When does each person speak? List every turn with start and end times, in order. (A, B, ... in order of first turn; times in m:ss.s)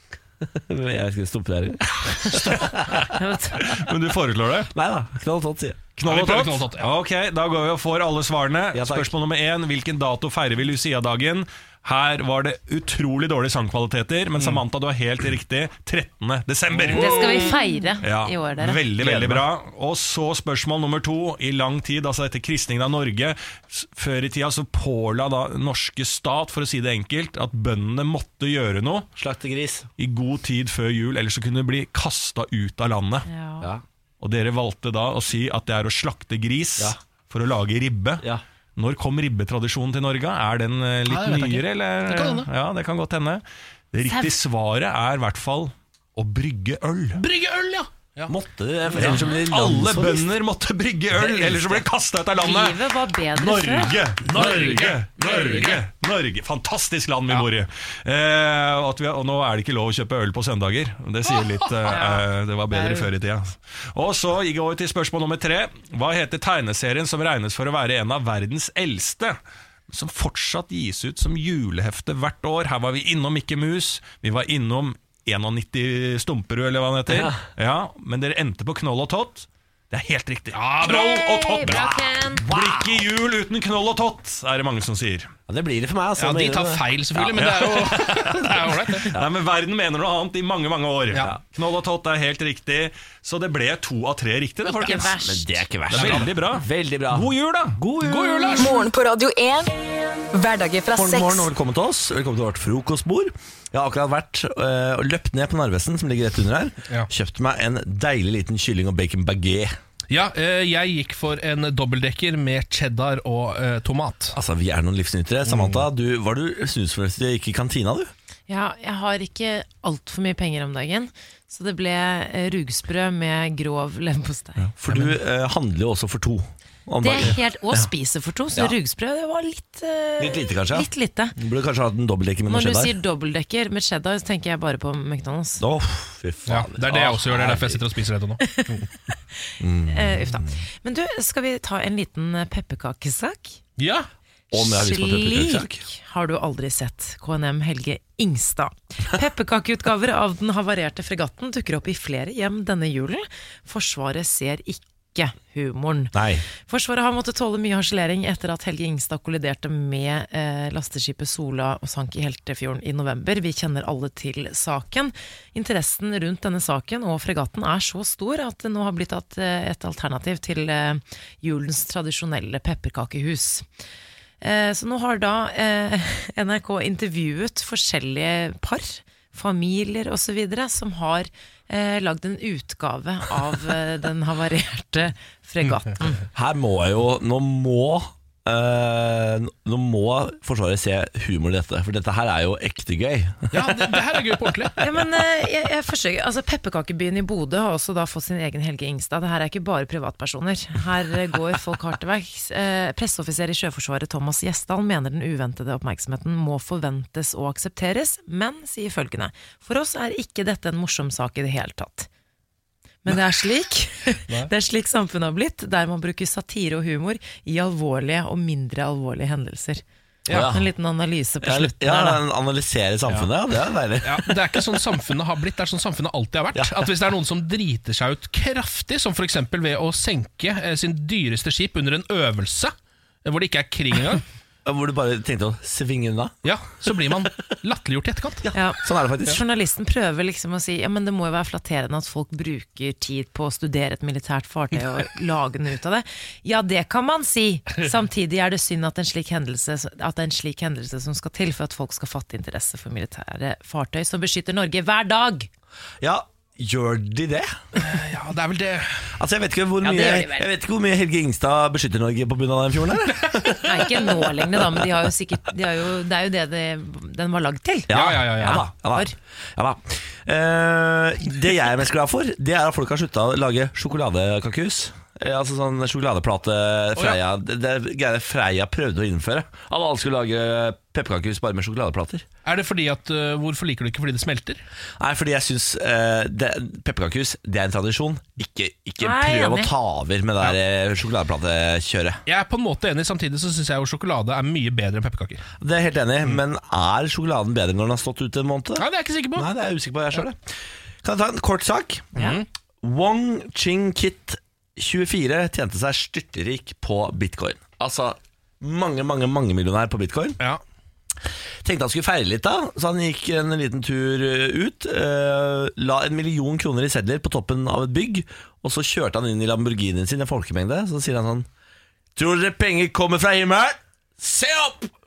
0:00.4-0:03.0 A
0:03.1-0:03.7 B
0:03.6-0:04.7 C
0:04.7-0:05.9 A
0:06.0-0:17.5 C
0:06.0-0:06.9 D
0:08.7-0:09.1 A
0:16.8-0:17.5 D
0:16.9-0:18.8 B
0:18.0-0:29.1 C
0:19.0-0:19.5 A
0:29.2-0:29.9 A
0:30.0-0:33.3 C
0:33.2-0:33.7 B
0:34.2-0:47.2 C
0:41.1-0:42.5 D
0:44.0-0:44.4 B
0:47.2-0:48.3 D
0:48.3-0:50.4 A
0:48.9-0:49.2 D
0:49.0-0:52.8 C
0:51.2-0:51.8 A
0:52.4-0:54.0 B
0:53.3-1:09.4 C
0:54.2-0:55.8 D
0:54.4-0:54.9 A
1:01.3-1:02.0 D
1:01.9-1:03.1 B
1:09.9-1:25.3 C
1:17.1-1:17.4 A
1:20.5-1:21.8 D
1:20.8-1:22.5 B
1:22.5-1:23.0 A
1:25.5-1:29.3 A
1:26.2-1:29.1 D
1:27.4-1:27.7 C
1:29.1-1:35.1 C
1:34.6-1:35.6 B
1:34.7-1:38.6 A
1:35.9-1:36.3 D
1:35.9-1:37.8 C
1:38.0-1:38.7 D
1:38.6-1:39.7 E
1:40.3-1:41.5 E
1:40.9-1:49.7 A
1:50.1-1:54.4 D
1:54.4-1:58.1 A
1:55.5-1:55.8 D
1:58.5-2:04.7 B
2:04.8-2:07.9 A
2:07.0-2:11.4 B
2:10.2-2:12.9 A
2:12.5-2:15.6 B
2:15.6-2:17.8 A
2:16.5-2:18.9 D
2:18.5-2:18.8 B
2:19.6-2:20.6 A
2:19.9-2:23.6 B
2:23.8-2:24.1 D
2:24.5-2:25.8 A
2:24.5-2:53.7 B
2:36.1-2:36.4 A
2:54.4-3:06.2 B
3:06.3-3:13.8 A
3:13.5-3:14.8 D
3:14.8-3:32.1 B
3:33.0-3:39.8 B
3:40.3-3:40.7 A
3:40.3-3:42.2 B
3:41.4-3:44.6 A
3:44.0-3:52.7 D
3:46.5-3:46.8 A
3:53.2-3:54.2 D
3:54.6-3:56.4 A
3:56.4-3:58.4 D
3:58.5-3:59.4 A
3:58.5-4:15.5 B
4:16.0-4:17.6 A
4:17.8-4:19.2 D
4:19.2-4:24.8 A
4:19.9-4:20.4 B
4:23.6-4:29.1 B
4:27.9-4:42.3 A
4:27.9-4:28.6 D
4:42.4-4:44.6 D
4:45.0-4:52.2 A
4:49.0-4:49.7 B
4:52.3-4:55.4 D
4:55.6-5:02.2 A
4:58.8-4:59.5 D
5:02.2-5:02.4 D
5:02.8-5:10.4 A
5:11.6-5:21.5 A
5:22.2-5:24.9 A